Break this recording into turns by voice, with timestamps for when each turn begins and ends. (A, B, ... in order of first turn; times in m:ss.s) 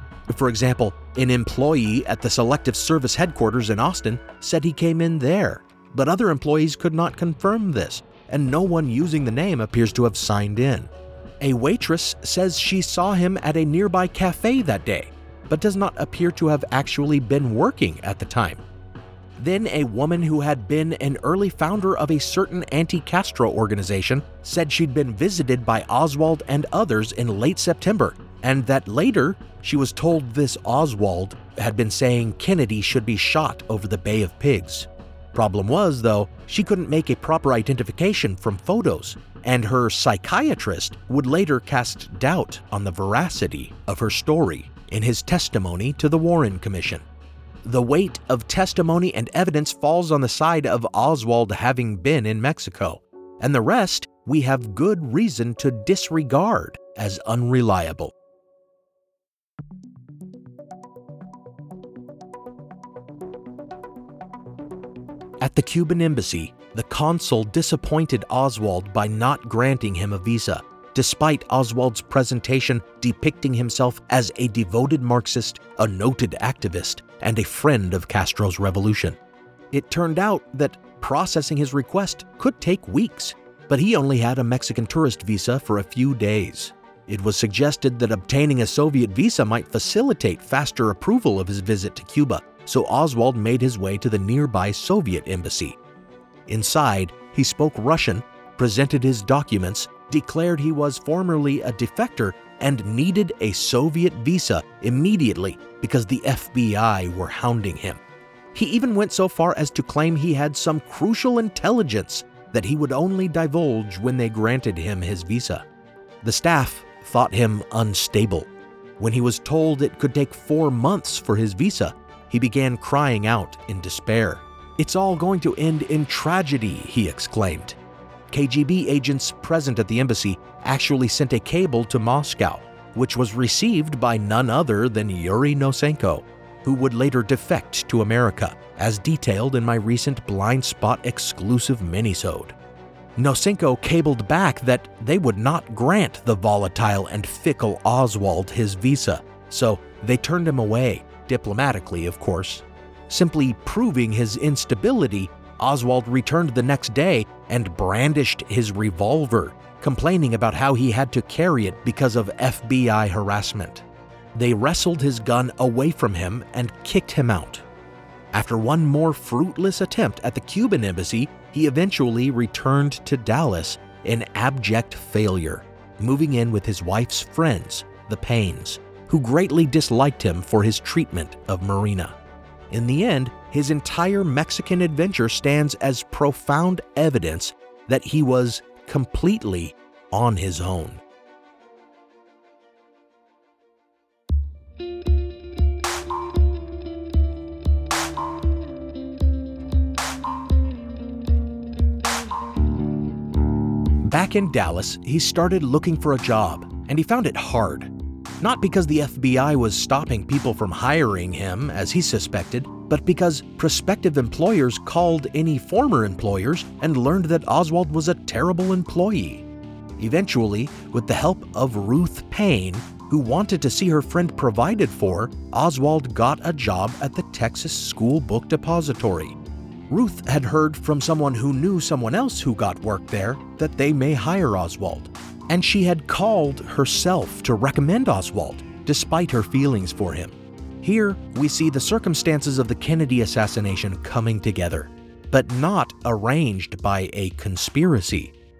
0:00.3-0:10.9 A
0:11.4-0:18.6 A
0:19.4-0:47.0 A
0:47.6-0:58.1 A
1:05.4-1:19.2 A
1:19.7-1:35.8 A
1:36.5-1:48.0 A
1:48.5-1:55.6 A
1:56.2-2:07.8 A
2:08.3-2:22.5 A
2:23.2-2:43.8 A
2:44.3-2:47.6 A
2:48.3-3:02.1 A
3:02.7-3:11.0 A
3:24.0-3:39.4 A
3:40.0-3:49.4 A
3:49.9-4:08.3 A